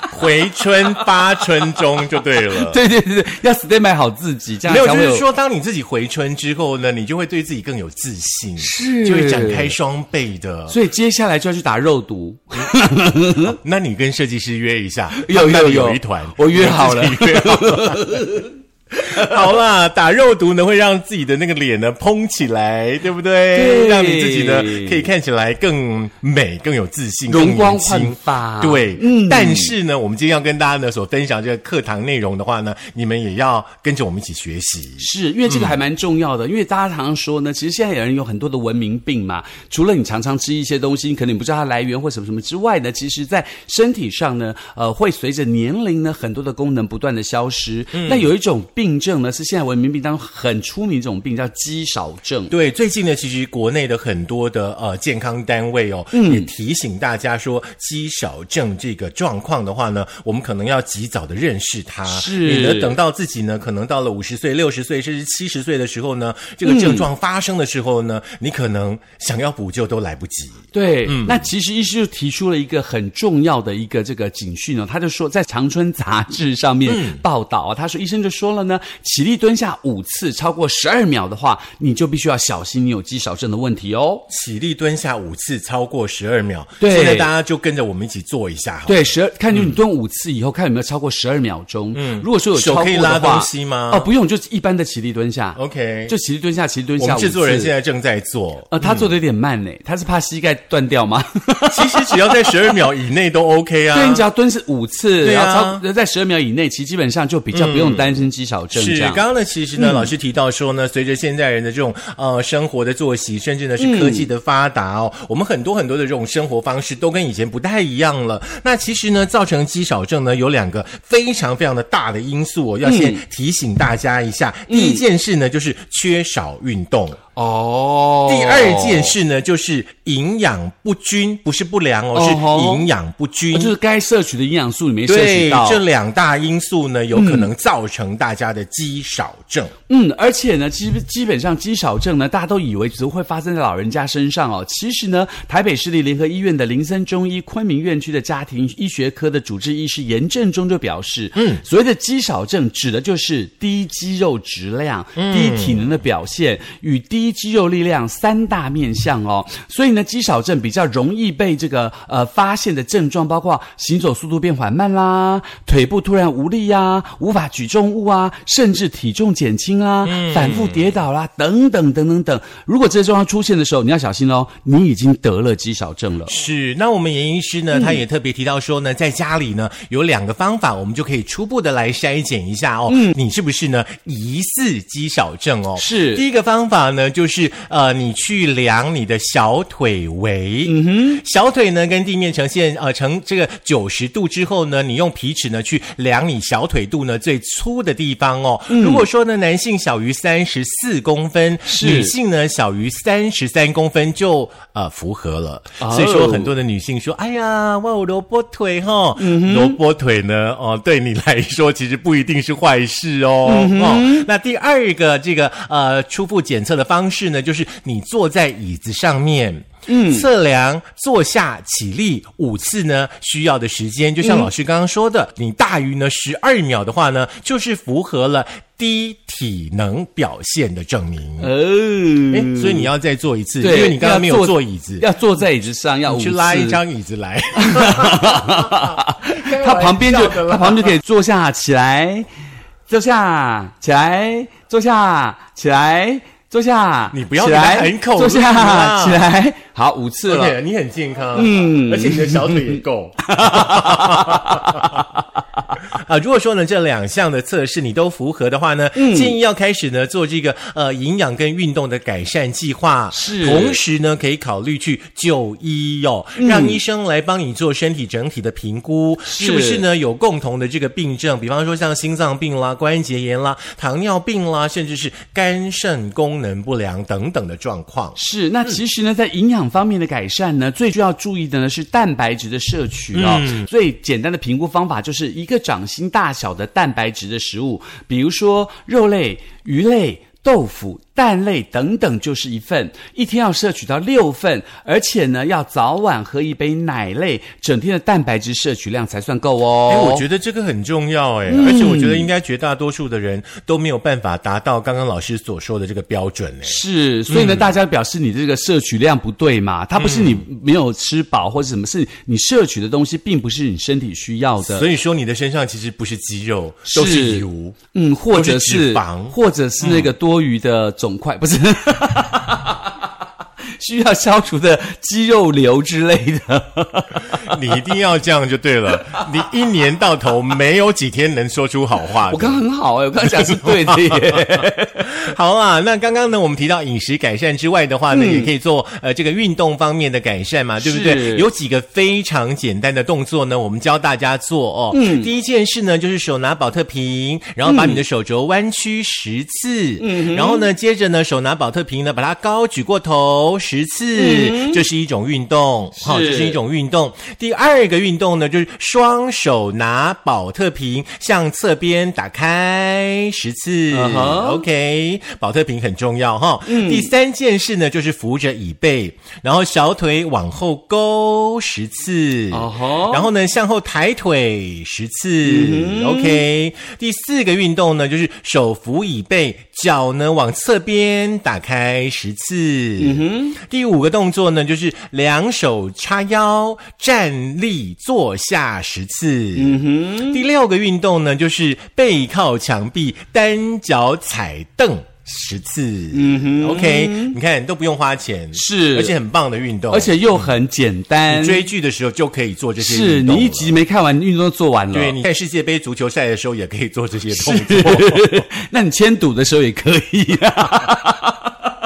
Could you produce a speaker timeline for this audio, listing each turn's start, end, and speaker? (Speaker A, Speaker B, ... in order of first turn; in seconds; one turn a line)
Speaker A: 0.1-2.8
Speaker B: 0.9-1.8
Speaker B: 2.4-5.3
Speaker A: 4.7-10.8
Speaker B: 8.6-9.8
Speaker B: 10.7-13.6
Speaker A: 13.5-18.1
Speaker B: 15.2-18.6
Speaker A: 19.0-35.7
Speaker B: 23.5-25.1
Speaker B: 27.3-29.7
Speaker B: 35.0-52.5
Speaker A: 47.9-48.3
Speaker A: 52.5-71.5
Speaker B: 56.1-56.5
Speaker B: 62.1-63.0
Speaker B: 66.7-67.1
Speaker B: 70.7-84.2
Speaker A: 76.8-77.2
Speaker A: 84.3-89.8
Speaker B: 86.8-87.3
Speaker B: 88.8-97.7
Speaker A: 91.9-94.1
Speaker A: 95.6-96.1
Speaker A: 97.0-99.1
Speaker B: 98.7-102.7
Speaker A: 101.7-104.2
Speaker B: 103.9-109.2
Speaker A: 105.2-105.8
Speaker A: 107.5-108.2
Speaker A: 108.7-127.2
Speaker B: 109.8-110.1
Speaker B: 113.8-114.3
Speaker B: 122.8-123.2
Speaker B: 124.7-125.0
Speaker B: 127.3-129.1
Speaker A: 128.3-133.8
Speaker B: 132.1-132.9
Speaker B: 133.5-135.8
Speaker A: 135.1-139.7
Speaker B: 137.1-137.5
Speaker B: 139.9-176.3
Speaker A: 151.3-151.6
Speaker A: 155.2-155.8
Speaker A: 170.0-170.9
Speaker A: 176.2-231.5
Speaker B: 177.7-178.0
Speaker B: 182.9-183.2
Speaker B: 185.8-186.2
Speaker B: 190.7-191.2
Speaker B: 198.7-199.0
Speaker B: 201.7-202.1
Speaker B: 205.8-206.5
Speaker B: 209.2-209.8
Speaker B: 213.4-214.3
Speaker B: 219.9-220.2
Speaker B: 224.2-224.5
Speaker B: 231.4-232.9
Speaker A: 232.3-235.1
Speaker B: 233.6-236.8
Speaker A: 236.1-241.0
Speaker B: 237.6-242.3
Speaker B: 242.9-250.6
Speaker A: 247.1-249.2
Speaker A: 250.3-255.1
Speaker B: 251.3-255.2
Speaker A: 255.9-278.8
Speaker B: 258.9-259.3
Speaker B: 263.1-263.8
Speaker B: 266.4-266.8
Speaker B: 269.2-269.8
Speaker B: 278.1-300.2
Speaker A: 283.1-283.7
Speaker A: 299.9-307.7
Speaker B: 301.5-302.3
Speaker B: 306.6-314.9
Speaker A: 309.9-310.4
Speaker A: 314.6-317.8
Speaker B: 316.9-323.1
Speaker A: 318.3-320.1
Speaker B: 323.7-327.8
Speaker A: 327.4-332.6
Speaker B: 328.9-329.3
Speaker B: 332.3-335.1
Speaker A: 333.2-400.5
Speaker B: 338.1-338.5
Speaker B: 340.8-341.5
Speaker B: 344.9-345.3
Speaker B: 347.6-348.0
Speaker B: 350.0-350.6
Speaker B: 354.1-354.8
Speaker B: 356.0-356.6
Speaker B: 363.9-364.6
Speaker B: 366.6-367.1
Speaker B: 372.5-373.3
Speaker B: 375.4-376.4
Speaker B: 383.0-383.6
Speaker B: 389.6-390.4
Speaker B: 396.1-397.4
Speaker B: 398.5-399.1
Speaker B: 399.9-401.6
Speaker A: 401.3-403.8
Speaker B: 402.8-405.2
Speaker A: 404.9-408.4
Speaker B: 407.3-411.7